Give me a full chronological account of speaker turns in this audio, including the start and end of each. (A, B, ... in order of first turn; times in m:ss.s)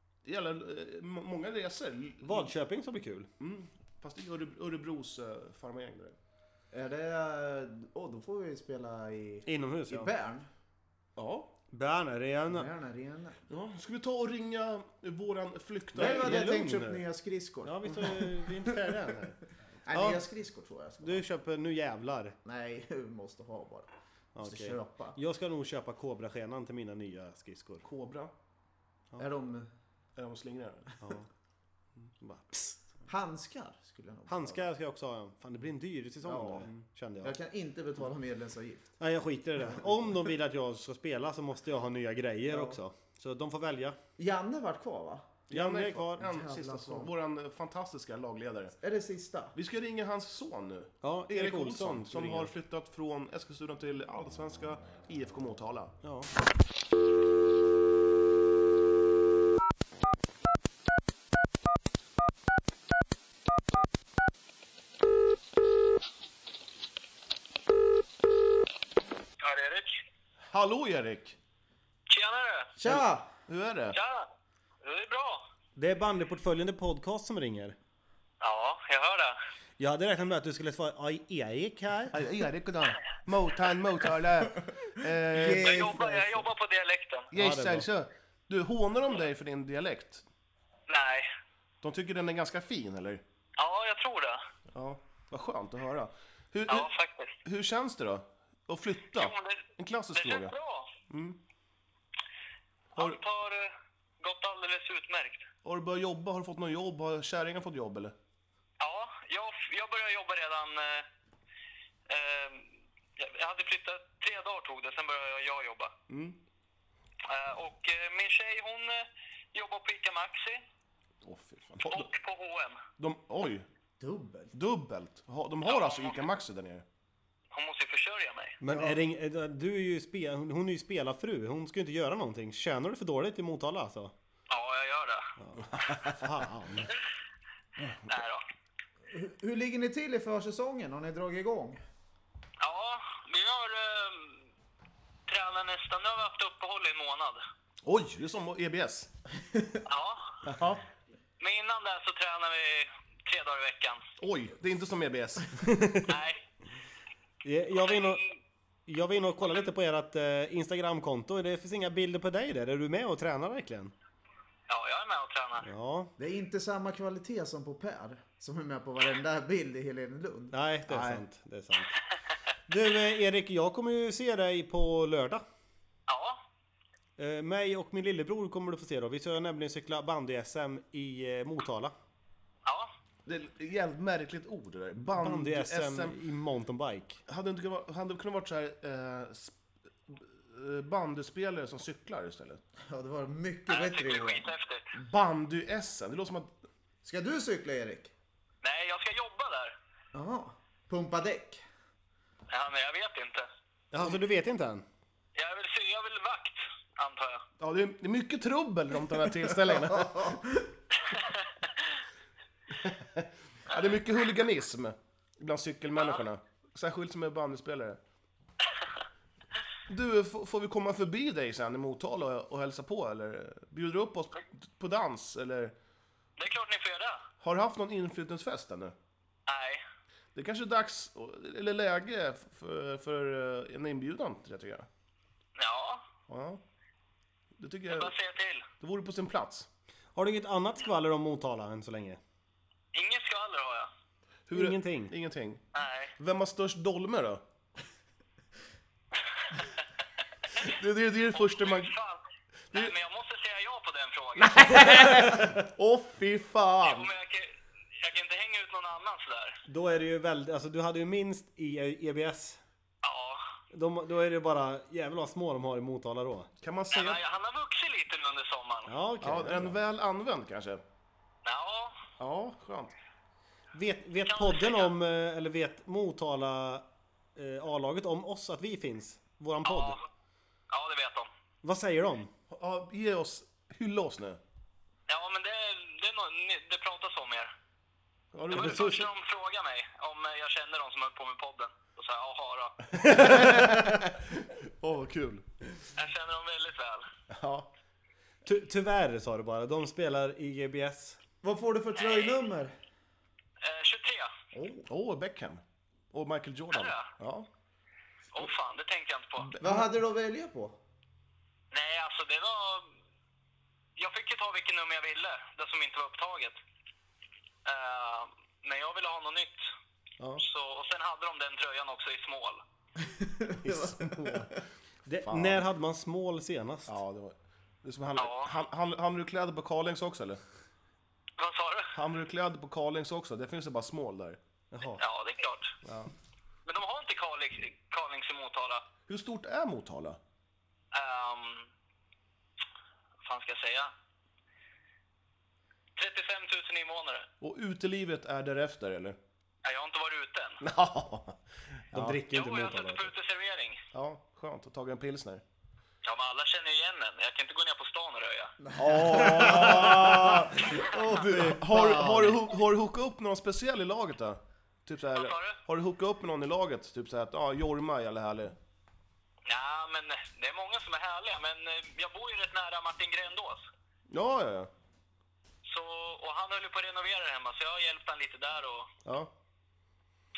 0:00.2-0:02.5 A
0:02.2-0:03.3 B
0:03.4-0:06.2 A
0:06.7-0:10.5 C
0:09.5-0:10.1 B
0:11.2-0:11.5 A
0:11.7-0:12.7 B
0:12.5-0:13.4 C
0:13.5-0:16.5 A
0:15.9-0:18.9 C
0:16.0-0:17.0 B
0:17.6-0:20.2 B
0:19.9-0:21.3 C
0:21.0-0:22.4 B
0:22.4-0:25.2 C
0:24.4-0:27.8 B
0:27.8-0:28.3 A
0:29.2-0:29.7 C
0:30.2-0:31.0 A
0:31.0-0:31.3 B
0:32.2-0:32.8 B
0:33.1-0:34.6 C
0:34.3-0:37.4 B
0:36.2-0:36.7 C
0:37.2-0:38.9 C
0:39.0-0:44.0 B
0:42.5-0:42.8 C
0:44.2-0:45.5 C
0:45.5-0:46.2 B
0:45.5-0:48.8 A
0:46.1-0:47.1 C
0:48.8-0:49.6 C
0:49.6-0:55.9 A
0:51.0-0:52.5 B
0:56.0-0:56.3 B
1:09.4-1:10.0 D
1:10.5-1:11.4 A
1:12.1-1:12.7 D
1:12.8-1:13.3 C
1:12.9-1:14.0 A
1:13.9-1:14.3 D
1:14.8-1:15.4 D
1:15.8-1:17.8 B
1:18.4-1:19.4 D
1:19.8-1:22.1 B
1:22.1-1:25.9 A
1:25.3-1:26.5 C
1:25.4-1:27.3 D
1:27.3-1:30.2 A
1:27.3-1:27.9 B
1:30.9-1:31.3 D
1:31.8-1:33.2 A
1:33.6-1:34.4 D
1:34.7-1:36.9 A
1:36.7-1:37.4 D
1:37.4-1:40.5 A
1:39.1-1:40.9 D
1:41.1-1:41.4 A
1:43.0-1:45.5 D
1:45.6-1:48.1 A
1:48.8-1:51.1 D
1:52.1-1:55.9 D
1:56.1-1:56.4 A
1:57.3-2:00.6 D
2:01.2-2:02.1 A
2:01.8-2:02.8 D
2:03.0-2:03.7 A
2:04.0-2:04.5 C
2:04.5-2:06.8 A
2:05.6-2:06.3 D
2:07.5-2:08.6 D
2:08.6-2:14.1 B
2:08.7-2:09.0 C
2:14.5-2:15.3 D
2:15.4-2:16.9 B
2:17.8-2:18.1 A
2:18.1-2:18.4 D
2:19.1-2:21.8 C
2:22.6-2:24.4 D
2:25.3-2:27.4 D
2:27.8-2:29.1 A
2:29.9-2:30.4 D
2:30.5-2:30.8 A
2:31.4-2:34.0 D
2:34.2-2:35.6 A
2:35.6-2:36.1 B
2:36.1-2:36.4 D
2:37.4-2:38.2 B
2:37.7-2:38.4 D
2:38.9-2:43.9 B
2:44.7-2:45.7 D
2:45.6-2:46.1 B
2:46.2-2:51.2 C
2:50.5-2:52.0 B
2:52.7-2:55.4 B
2:56.1-2:56.4 D
2:57.2-3:01.9 B
3:02.6-3:02.9 D
3:03.2-3:06.2 A
3:05.1-3:07.2 B
3:07.3-3:09.6 A
3:10.1-3:12.6 A
3:12.8-3:14.5 C
3:13.7-3:14.9 D
3:15.1-3:16.5 A
3:17.0-3:18.1 C
3:18.6-3:19.7 D
3:20.1-3:21.6 C
3:22.5-3:23.5 D
3:23.9-3:24.8 B
3:25.4-3:27.4 D
3:27.6-3:30.4 A
3:29.8-3:30.7 C
3:32.8-3:38.0 A
3:36.0-3:36.2 D
3:39.9-3:45.7 A
3:46.4-3:47.2 D
3:47.4-3:48.9 A
3:49.5-3:49.8 D
3:50.4-3:54.9 A
3:55.6-3:56.0 D
3:56.3-3:56.6 A
3:57.6-3:58.1 A
3:57.9-3:58.7 D
3:58.8-3:59.7 A
4:00.2-4:02.2 B
4:02.9-4:03.9 D
4:04.5-4:05.6 A
4:04.5-4:05.1 B
4:05.7-4:06.1 D
4:06.2-4:07.4 A
4:10.6-4:12.0 A
4:11.3-4:15.0 D
4:14.4-4:17.1 A
4:15.0-4:15.5 B
4:16.8-4:19.6 D
4:19.7-4:22.6 B
4:23.0-4:23.4 D
4:23.7-4:26.5 B
4:26.6-4:27.2 A
4:26.9-4:28.9 D
4:28.9-4:29.8 B
4:29.2-4:30.8 A
4:31.4-4:32.0 D
4:32.2-4:32.9 A
4:33.7-4:36.8 B
4:34.2-4:34.9 D
4:37.4-4:40.0 B
4:39.6-4:40.0 D
4:40.7-4:41.3 D
4:41.6-4:42.3 B
4:42.5-4:44.4 A
4:45.1-4:47.5 D
4:48.3-4:49.0 A
4:48.5-4:52.8 D
4:48.5-4:49.0 B
4:52.9-4:55.5 A
4:53.0-4:54.0 B
4:56.0-4:57.1 D
4:57.3-4:57.7 A
4:58.4-5:01.2 B
5:01.4-5:02.8 C
5:02.0-5:02.4 D
5:03.6-5:04.3 D
5:04.5-5:04.9 C
5:04.9-5:05.6 A
5:06.1-5:07.5 A
5:06.7-5:07.1 D
5:08.3-5:09.5 D
5:09.4-5:09.8 A
5:09.6-5:10.8 C
5:11.7-5:12.9 D
5:14.0-5:16.6 D
5:17.6-5:19.7 D
5:20.4-5:22.6 D
5:23.0-5:24.5 C
5:23.6-5:24.6 A
5:25.1-5:27.0 B
5:25.2-5:25.6 A
5:26.9-5:30.4 A
5:28.2-5:28.6 D
5:31.4-5:32.0 D
5:31.9-5:34.4 A
5:34.7-5:35.0 B
5:35.0-5:35.8 D
5:35.8-5:36.1 A
5:36.7-5:38.9 D
5:39.1-5:40.2 A
5:40.9-5:41.7 D
5:43.2-5:43.9 D
5:46.0-5:47.3 D
5:47.4-5:49.2 A
5:49.6-5:50.6 D
5:50.6-5:51.4 A
5:51.9-5:52.2 A
5:51.9-5:53.1 B
5:52.3-5:53.8 D
5:53.9-5:55.4 A
5:56.0-5:58.6 D
5:58.7-6:00.4 C
5:58.8-6:08.6 A
5:59.1-6:00.5 B
6:01.0-6:01.5 C
6:01.3-6:02.4 B
6:05.1-6:05.6 D
6:09.5-6:13.7 D
6:14.1-6:14.7 A
6:15.6-6:18.9 D
6:19.1-6:19.3 A